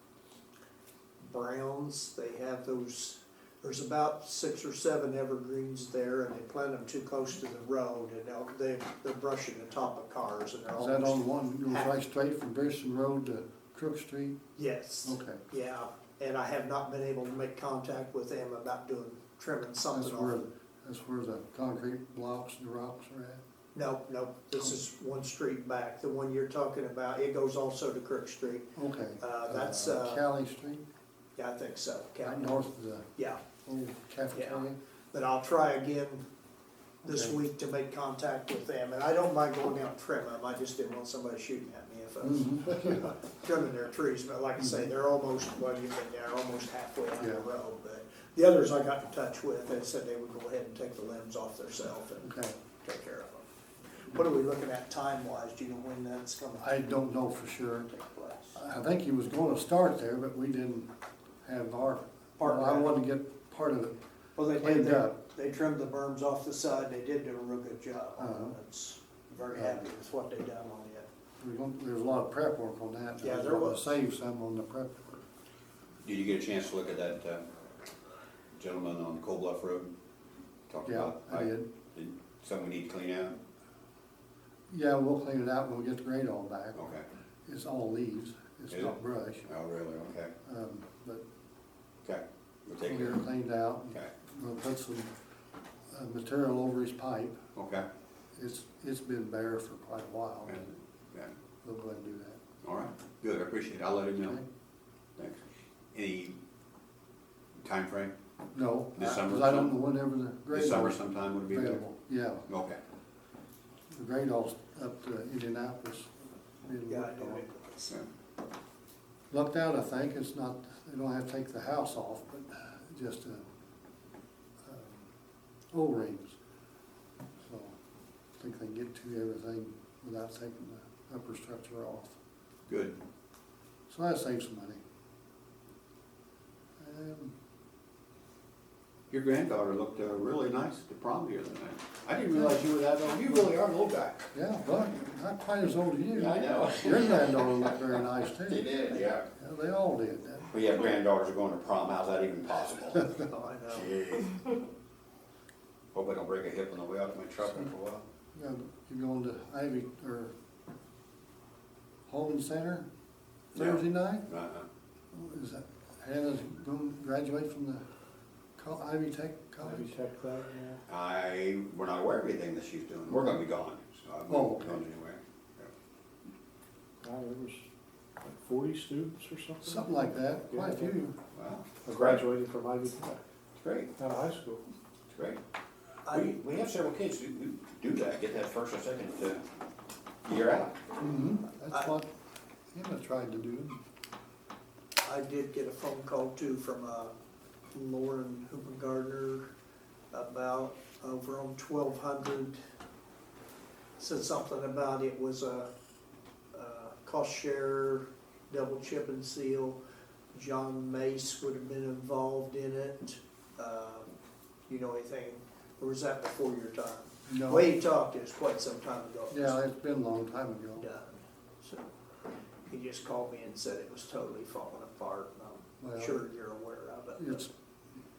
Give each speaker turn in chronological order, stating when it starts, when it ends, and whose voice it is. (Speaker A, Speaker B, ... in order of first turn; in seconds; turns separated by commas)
Speaker A: 1.2-11.9, Speaker B: 10.7-14.4, Speaker A: 14.6-20.4, Speaker B: 15.0-15.4, Speaker B: 19.9-23.4, Speaker A: 23.7-30.2, Speaker B: 28.8-30.8, Speaker A: 31.4-32.6, Speaker B: 32.2-33.1, Speaker A: 33.1-33.4, Speaker B: 33.6-34.8, Speaker A: 34.3-36.2, Speaker B: 37.0-37.4, Speaker A: 37.0-53.5, Speaker B: 42.2-43.1, Speaker B: 44.6-44.9, Speaker B: 47.2-47.5, Speaker B: 52.2-52.5, Speaker A: 54.0-56.7, Speaker B: 56.6-57.9, Speaker A: 57.9-58.6, Speaker B: 58.5-60.9, Speaker B: 61.4-64.0, Speaker A: 62.4-62.9, Speaker A: 64.3-71.1, Speaker B: 64.6-65.2, Speaker B: 68.2-68.5, Speaker B: 69.5-69.8, Speaker B: 71.4-75.2, Speaker A: 73.2-74.0, Speaker C: 76.0-77.5, Speaker C: 78.6-79.9, Speaker C: 80.7-83.4, Speaker B: 80.8-81.7, Speaker B: 84.7-86.8, Speaker C: 86.7-87.0, Speaker B: 87.5-89.5, Speaker C: 88.7-90.3, Speaker B: 90.4-91.2, Speaker C: 92.0-93.2, Speaker B: 92.8-95.1, Speaker B: 95.9-97.4, Speaker C: 97.5-97.8, Speaker B: 98.3-100.8, Speaker B: 101.6-102.4, Speaker C: 102.6-104.4, Speaker C: 105.9-106.4, Speaker C: 107.6-108.1, Speaker B: 108.5-112.4, Speaker C: 109.0-109.7, Speaker C: 110.5-111.8, Speaker C: 112.5-112.8, Speaker B: 113.9-117.4, Speaker A: 116.9-118.0, Speaker B: 119.3-123.4, Speaker B: 124.6-125.1, Speaker B: 125.7-126.4, Speaker B: 127.4-127.8, Speaker B: 128.4-132.2, Speaker C: 132.7-133.0, Speaker B: 133.9-134.8, Speaker B: 136.8-137.3, Speaker C: 139.1-144.3, Speaker B: 144.3-148.7, Speaker C: 146.1-147.7, Speaker C: 148.4-149.3, Speaker B: 149.3-150.5, Speaker C: 150.5-153.1, Speaker A: 153.2-153.9, Speaker C: 153.7-154.4, Speaker C: 155.9-158.1, Speaker B: 158.3-160.3, Speaker B: 162.1-162.8, Speaker B: 163.5-164.3, Speaker C: 163.5-164.7, Speaker B: 165.1-167.8, Speaker B: 168.6-169.9, Speaker D: 169.6-170.8, Speaker C: 170.9-175.7, Speaker B: 173.1-173.3, Speaker B: 174.3-174.8, Speaker D: 177.0-177.7, Speaker D: 178.2-181.0, Speaker B: 179.6-181.1, Speaker C: 181.3-182.2, Speaker D: 181.8-183.2, Speaker C: 183.6-183.9, Speaker D: 183.9-184.6, Speaker C: 185.1-185.4, Speaker A: 186.1-186.3, Speaker C: 186.1-189.4, Speaker C: 190.2-190.8, Speaker B: 191.0-192.1, Speaker B: 192.7-193.8, Speaker A: 195.0-197.1, Speaker A: 197.7-199.4, Speaker A: 200.1-202.6, Speaker A: 204.0-205.7, Speaker A: 206.5-209.8, Speaker A: 210.3-214.1, Speaker A: 214.7-219.6, Speaker B: 217.3-217.7, Speaker B: 219.3-220.8, Speaker A: 220.8-221.9, Speaker A: 222.7-227.4, Speaker B: 225.8-226.2, Speaker B: 227.2-227.5